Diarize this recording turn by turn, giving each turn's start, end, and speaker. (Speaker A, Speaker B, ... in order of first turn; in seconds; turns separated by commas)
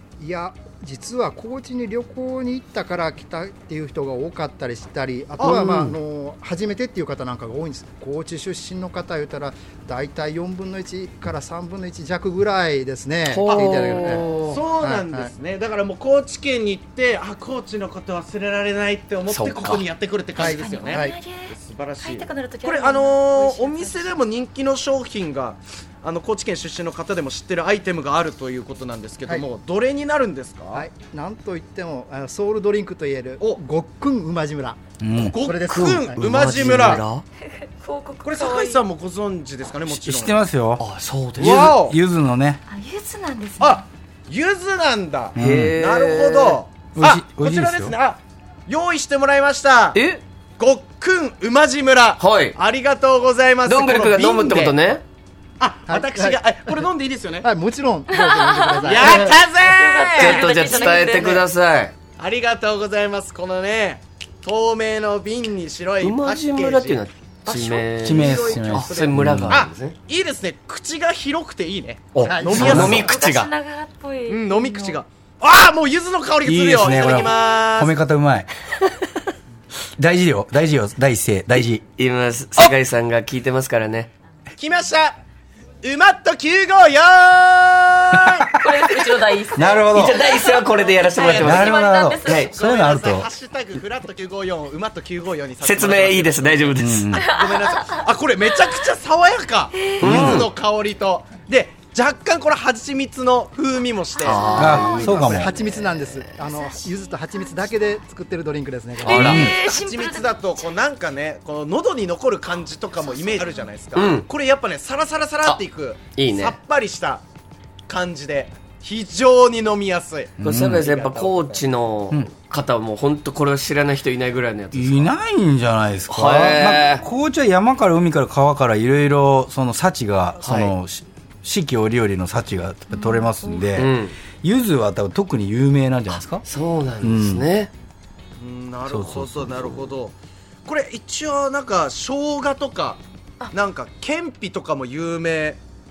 Speaker A: 0.2-14.3, Speaker B: 5.4-5.8, Speaker C: 5.4-6.0, Speaker C: 13.3-14.6, Speaker B: 13.4-30.8, Speaker A: 14.8-15.3, Speaker C: 19.3-19.9, Speaker D: 20.4-24.2, Speaker A: 20.4-21.2, Speaker A: 30.7-36.9, Speaker E: 35.0-35.4, Speaker B: 35.2-37.0, Speaker C: 35.7-37.2, Speaker D: 37.6-38.8, Speaker B: 38.2-40.4, Speaker E: 39.9-40.8, Speaker C: 40.8-41.6, Speaker B: 41.4-42.0, Speaker E: 41.4-42.6, Speaker D: 42.7-43.8, Speaker B: 43.6-50.0, Speaker E: 45.4-45.7, Speaker C: 45.4-46.6, Speaker E: 46.9-47.9, Speaker C: 49.9-50.2, Speaker B: 50.6-54.8, Speaker C: 52.2-52.6, Speaker C: 53.6-55.0, Speaker B: 55.6-57.5, Speaker A: 55.9-56.8, Speaker A: 57.4-59.3, Speaker D: 58.1-61.4, Speaker B: 58.8-61.4, Speaker C: 60.1-61.9, Speaker B: 62.2-67.0, Speaker C: 66.0-70.0, Speaker D: 67.5-68.6, Speaker E: 68.0-69.6, Speaker B: 68.2-73.3, Speaker C: 72.1-73.5, Speaker A: 72.2-72.7, Speaker E: 72.6-73.1, Speaker D: 72.6-75.0, Speaker B: 74.3-78.0, Speaker E: 76.5-78.5, Speaker D: 76.9-77.5, Speaker E: 80.0-81.8, Speaker C: 81.6-84.1, Speaker B: 84.6-85.2, Speaker B: 85.8-88.5, Speaker D: 88.5-92.5, Speaker E: 89.5-90.2, Speaker C: 89.9-92.5, Speaker B: 91.1-105.5, Speaker E: 91.2-93.3, Speaker C: 95.6-97.1, Speaker E: 96.8-97.3, Speaker D: 97.1-98.8, Speaker D: 99.7-100.2, Speaker C: 100.0-100.5, Speaker E: 100.0-100.5, Speaker D: 104.2-105.3, Speaker C: 104.2-106.3, Speaker E: 104.5-105.5, Speaker A: 104.9-109.5, Speaker D: 106.5-107.9, Speaker D: 109.0-110.7, Speaker C: 109.0-109.4, Speaker B: 109.1-117.2, Speaker E: 109.2-109.5, Speaker D: 113.0-113.7, Speaker C: 113.9-114.3, Speaker C: 116.1-116.6, Speaker B: 117.9-121.6, Speaker E: 120.4-120.8, Speaker C: 120.4-125.1, Speaker E: 124.7-136.4, Speaker C: 126.1-127.0, Speaker C: 130.4-130.8, Speaker D: 132.9-133.7, Speaker C: 133.8-134.2, Speaker C: 136.4-137.7, Speaker E: 137.0-137.5, Speaker B: 138.4-143.0, Speaker E: 138.9-139.8, Speaker B: 143.5-145.6